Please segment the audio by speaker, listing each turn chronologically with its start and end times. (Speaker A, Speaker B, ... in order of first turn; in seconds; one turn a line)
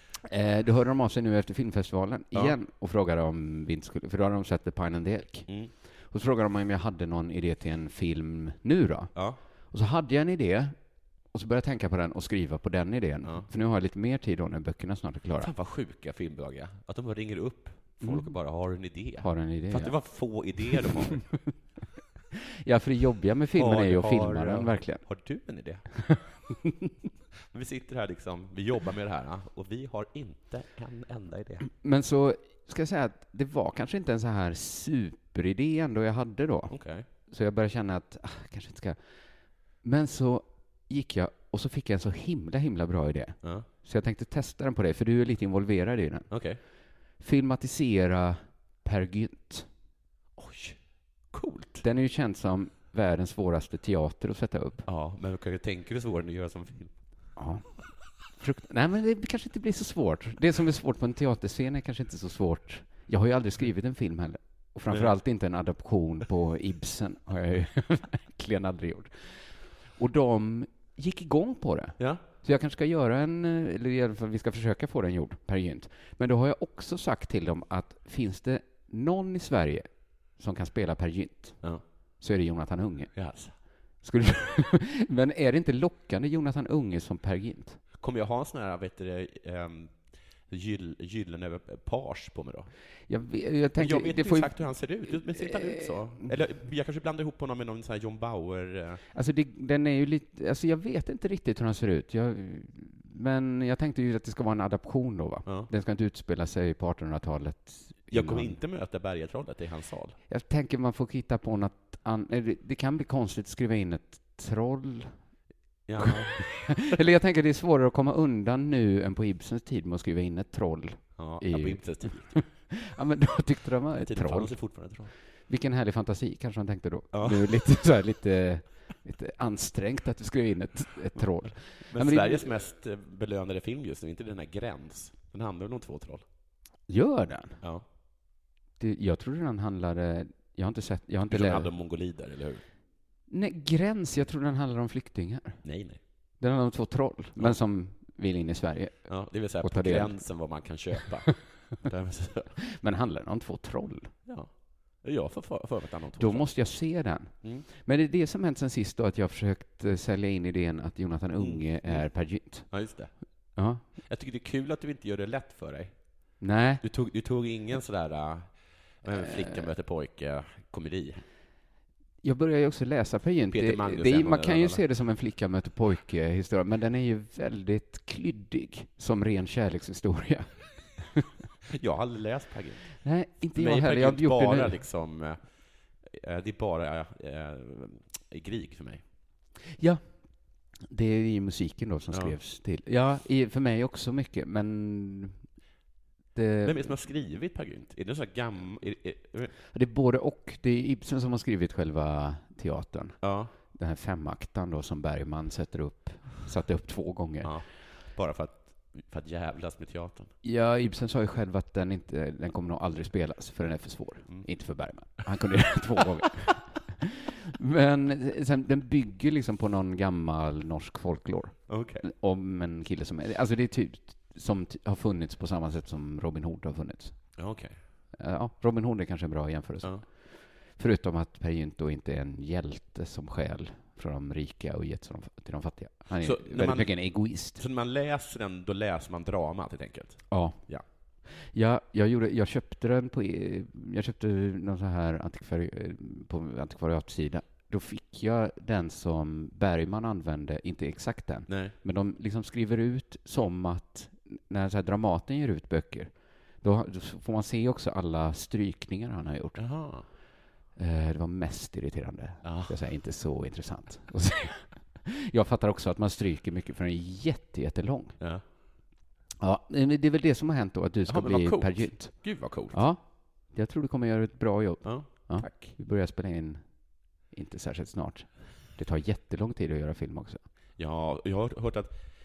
Speaker A: 0.3-9.1
Speaker A: 9.7-10.8
Speaker A: 11.3-15.5
Speaker B: 15.4-21.3
Speaker A: 18.0-18.4
Speaker A: 19.2-20.0
Speaker A: 20.8-21.2
Speaker A: 22.6-25.0
Speaker B: 23.6-25.9
Speaker B: 27.5-31.6
Speaker A: 31.8-39.0
Speaker B: 36.7-37.0
Speaker A: 39.8-46.3
Speaker B: 46.3-46.6
Speaker A: 47.2-49.7
Speaker B: 50.4-50.8
Speaker B: 51.3-51.8
Speaker A: 51.8-54.9
Speaker B: 54.9-56.9
Speaker A: 57.4-81.6
Speaker B: 72.0-72.2
Speaker A: 82.2-83.2
Speaker B: 83.1-83.5
Speaker A: 84.0-87.8
Speaker B: 88.0-92.7
Speaker A: 93.1-96.3
Speaker B: 93.8-99.0
Speaker A: 99.1-108.6
Speaker B: 105.4-105.7
Speaker B: 108.1-110.2
Speaker A: 110.3-115.2
Speaker B: 115.9-116.8
Speaker A: 116.0-124.8
Speaker B: 121.2-122.5
Speaker B: 124.0-125.1
Speaker A: 125.5-132.5
Speaker B: 127.1-127.6
Speaker B: 131.2-136.2
Speaker A: 136.9-137.6
Speaker A: 138.8-141.7
Speaker B: 141.3-142.6
Speaker A: 143.3-145.6
Speaker B: 145.6-146.0
Speaker A: 146.4-150.3
Speaker B: 149.1-152.5
Speaker A: 152.7-154.1
Speaker B: 154.2-156.5
Speaker A: 156.2-162.7
Speaker B: 161.4-162.1
Speaker B: 162.7-163.1
Speaker A: 163.6-163.8
Speaker B: 164.0-166.0
Speaker A: 166.4-166.8
Speaker B: 166.8-171.2
Speaker A: 169.1-169.5
Speaker A: 172.2-181.2
Speaker B: 173.5-174.8
Speaker B: 181.7-183.0
Speaker A: 183.0-184.8
Speaker B: 183.5-185.5
Speaker B: 186.0-189.0
Speaker A: 189.7-195.4
Speaker B: 192.1-192.4
Speaker A: 196.3-197.0
Speaker B: 196.6-199.5
Speaker A: 199.7-207.6
Speaker B: 203.2-203.5
Speaker B: 207.4-210.3
Speaker A: 210.4-227.4
Speaker B: 221.7-222.1
Speaker B: 227.3-227.8
Speaker A: 228.2-237.6
Speaker B: 236.2-240.8
Speaker A: 240.3-240.6
Speaker A: 241.2-259.6
Speaker B: 251.5-251.7
Speaker B: 259.6-260.1
Speaker A: 260.8-268.2
Speaker B: 262.4-262.8
Speaker A: 269.4-276.8
Speaker B: 271.1-272.8
Speaker B: 274.8-275.7
Speaker A: 277.3-280.4
Speaker B: 280.8-281.9